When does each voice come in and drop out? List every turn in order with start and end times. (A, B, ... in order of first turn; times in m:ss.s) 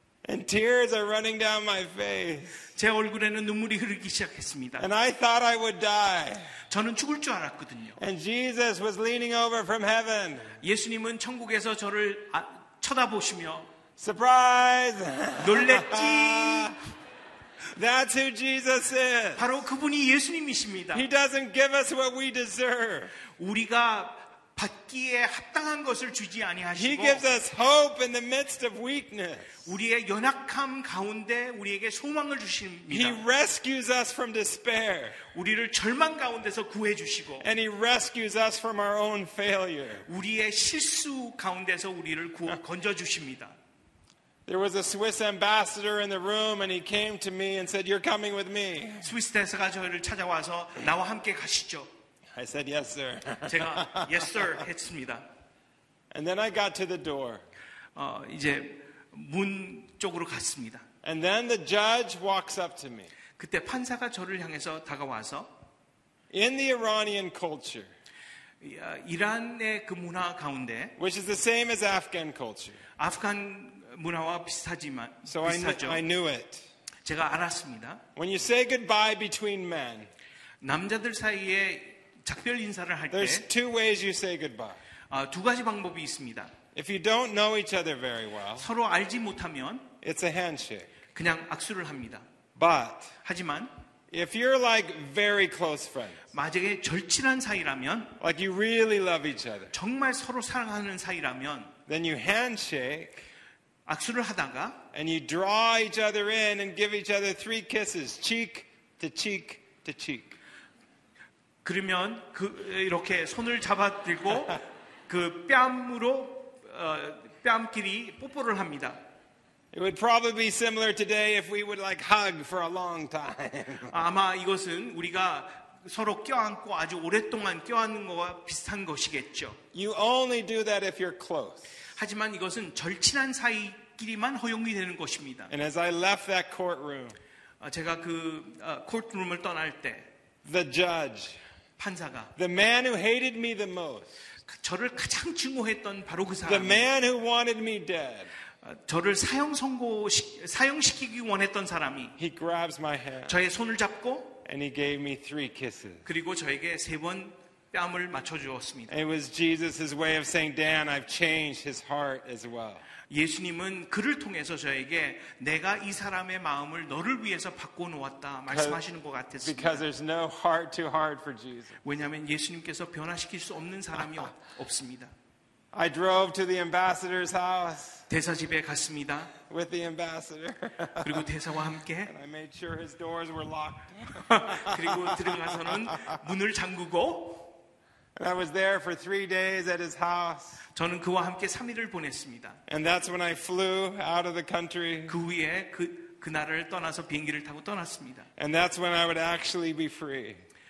0:00.2-0:02.6 A
0:02.7-0:04.9 B
0:04.8-0:06.5 A
0:06.7-0:08.0 B
0:08.0-0:10.6 A
0:10.6-0:13.7 B
0:14.0-0:16.8 A
0:15.4-0:16.8 B
0:17.7-0:19.4 A
0:19.4-0:21.0 B
0:20.9-0:23.1 A
0:23.4-0:27.2 B
0:26.7-0:29.6 A
0:29.6-0:33.2 B
0:32.9-0:35.2 A
0:35.3-0:37.5 B
0:37.4-0:40.1 A
0:40.1-0:43.5 B
0:44.4-0:49.1 A
0:49.0-0:51.9 B
0:52.3-0:54.6 A
0:53.4-0:55.2 B
0:56.1-0:57.4 A
0:57.9-1:00.8 B
1:01.0-1:03.1 A
1:03.4-1:05.5 B
1:06.3-1:07.9 A
1:08.6-1:10.9 B
1:11.0-1:12.8 A
1:13.0-1:16.0 B
1:15.3-1:16.7 A
1:17.0-1:18.0 B
1:18.2-1:20.1 A
1:20.6-1:23.4 B
1:23.1-1:24.8 A
1:25.1-1:26.5 B
1:26.7-1:28.7 A
1:28.6-1:29.9 B
1:30.0-1:30.9 A
1:31.1-1:32.2 B
1:32.6-1:33.1 A
1:33.2-1:33.7 B
1:34.1-1:36.2 A
1:36.3-1:38.1 B
1:38.2-1:39.7 A
1:39.7-1:41.7 B
1:41.9-1:43.3 A
1:43.8-1:44.8 B
1:44.9-1:50.4 A
1:51.6-1:59.0 B
1:59.7-2:04.0 A
2:03.9-2:09.6 B
2:09.7-2:11.7 A
2:12.0-2:15.5 B
2:15.5-2:17.2 A
2:17.6-2:20.1 B
2:20.4-2:21.4 A
2:21.8-2:22.3 B
2:22.4-2:24.1 A
2:24.5-2:26.9 B
2:26.4-2:28.3 A
2:28.6-2:32.2 B
2:32.2-2:33.4 A
2:33.3-2:34.4 B
2:34.4-2:36.0 A
2:36.0-2:38.9 B
2:38.9-2:42.8 A
2:43.1-2:49.8 B
2:48.5-2:48.8 A
2:49.4-2:51.8 A
2:51.8-2:55.1 B
2:55.7-2:58.0 A
2:58.1-2:59.3 B
2:59.4-3:01.3 A
3:01.0-3:02.1 B
3:02.0-3:06.2 A
3:04.2-3:07.5 B
3:08.2-3:10.6 A
3:10.7-3:12.6 B
3:12.7-3:15.2 A
3:15.1-3:18.3 B
3:18.4-3:20.4 A